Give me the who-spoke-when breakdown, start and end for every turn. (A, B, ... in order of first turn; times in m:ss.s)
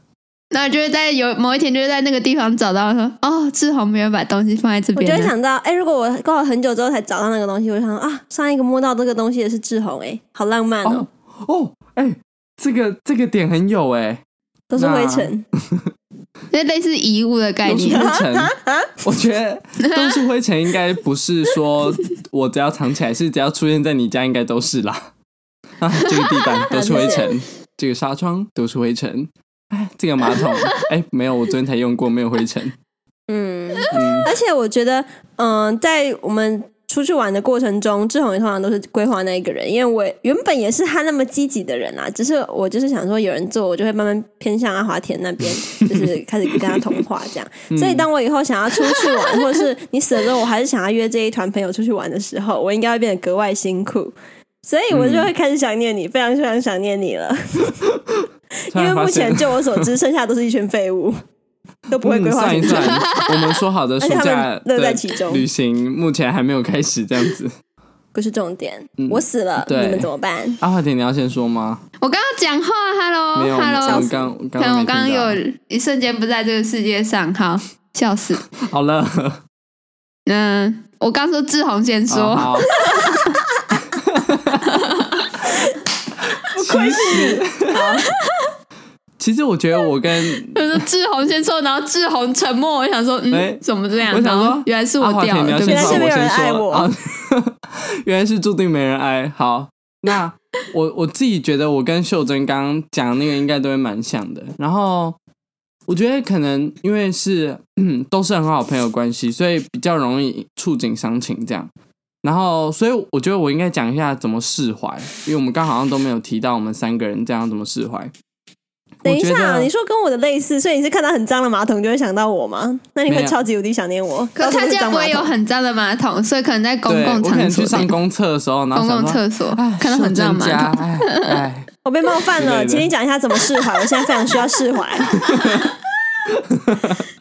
0:00.5-0:05.3 A
0:05.0-0:11.1 B
0:10.8-0:14.2 C
0:14.7-0:15.4 B
0:14.8-0:15.9 C
0:16.5-0:18.1 A
0:17.6-0:25.1 C
0:17.9-0:19.0 B
0:19.8-0:20.1 A
0:25.8-0:32.7 C
0:26.7-0:27.3 B
0:33.3-0:57.9 B
0:33.9-0:34.3 C
0:47.7-0:48.0 C
0:54.9-0:55.3 C
0:58.7-1:01.2 B
0:58.7-0:59.9 C
1:01.9-1:03.1 B
1:02.0-1:07.5 C
1:02.7-1:03.4 A
1:04.0-1:05.4 B
1:08.1-1:10.6 B
1:09.0-1:10.1 C
1:10.6-1:11.8 C
1:12.0-1:18.5 A
1:13.3-1:15.4 C
1:13.8-1:14.2 B
1:18.6-1:19.4 C
1:20.2-1:23.2 A
1:22.1-1:22.7 C
1:23.9-1:24.8 C
1:24.7-1:25.3 A
1:26.4-1:27.8 C
1:26.6-1:28.1 B
1:28.1-1:28.5 A
1:29.2-1:30.8 C
1:30.3-1:36.1 A
1:33.3-1:45.2 C
1:35.6-1:36.9 B
1:45.9-1:51.7 C
1:52.2-1:58.1 C
1:59.0-2:05.3 B
1:59.0-1:59.7 C
2:03.1-2:03.4 C
2:04.4-2:07.9 A
2:06.9-2:11.7 C
2:08.7-2:11.4 A
2:11.8-2:15.2 B
2:12.4-2:12.9 C
2:15.1-2:15.7 C
2:16.3-2:17.0 C